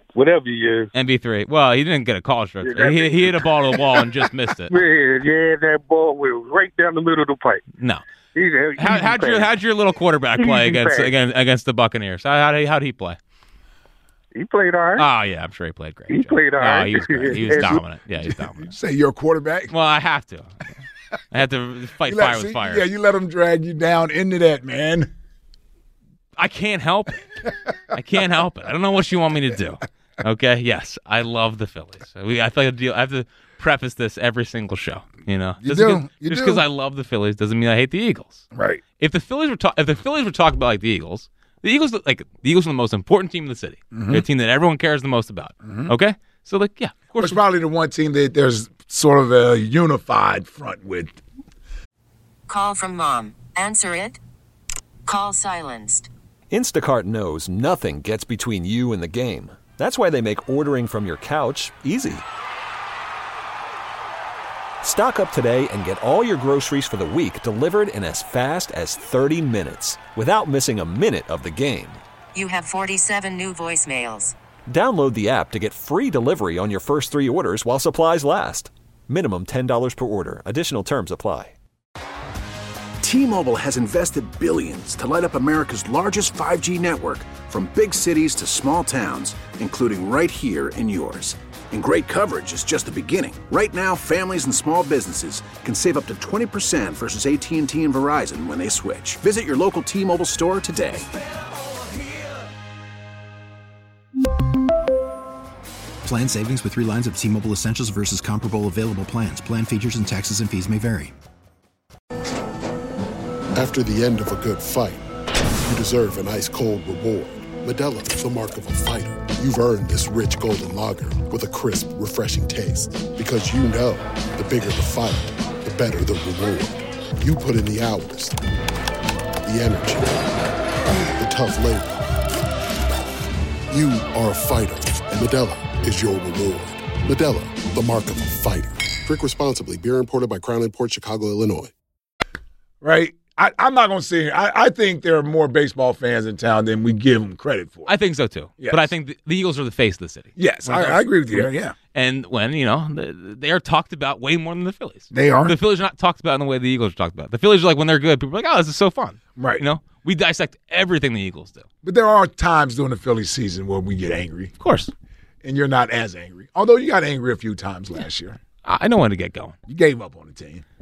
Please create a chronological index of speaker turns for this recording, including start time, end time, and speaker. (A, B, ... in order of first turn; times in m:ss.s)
0:00.1-0:00.9 A
0:00.9-0:04.7 B
0:02.6-0:04.1 A
0:04.7-0:07.6 A
0:08.3-0:09.5 A
0:08.8-0:13.2 B
0:10.4-0:11.1 A
0:14.3-0:15.1 A
0:15.0-0:18.7 B
0:16.1-0:17.8 A
0:18.3-0:19.7 C
0:19.7-0:20.5 B
0:21.3-0:22.9 B
0:22.0-0:25.1 C
0:26.4-0:27.3 B
0:27.9-0:38.4 B
0:35.6-0:36.6 C
0:38.5-0:38.8 C
0:39.0-0:47.4 B
0:43.9-0:44.2 C
0:45.6-0:45.9 C
0:47.2-0:51.2 C
0:52.5-0:54.2 D
0:55.1-0:56.1 D
0:56.5-1:02.2 E
1:04.8-1:12.0 E
1:12.3-1:14.4 D
1:14.7-1:21.5 E
1:23.0-1:41.1 F
1:46.0-1:51.1 G
1:53.5-1:55.1 H
1:55.6-2:08.4 H
2:09.4-2:10.3 H
2:11.0-2:12.2 H
2:13.7-2:21.7 H
2:22.8-2:27.9 C
2:27.9-2:41.7 B
2:28.6-2:28.9 C
2:30.4-2:31.8 C
2:35.1-2:35.6 C
2:39.4-2:39.6 C
2:41.8-2:44.5 C
2:44.6-2:44.9 B
2:45.4-2:48.4 C
2:48.6-2:49.6 B
2:49.7-2:50.6 C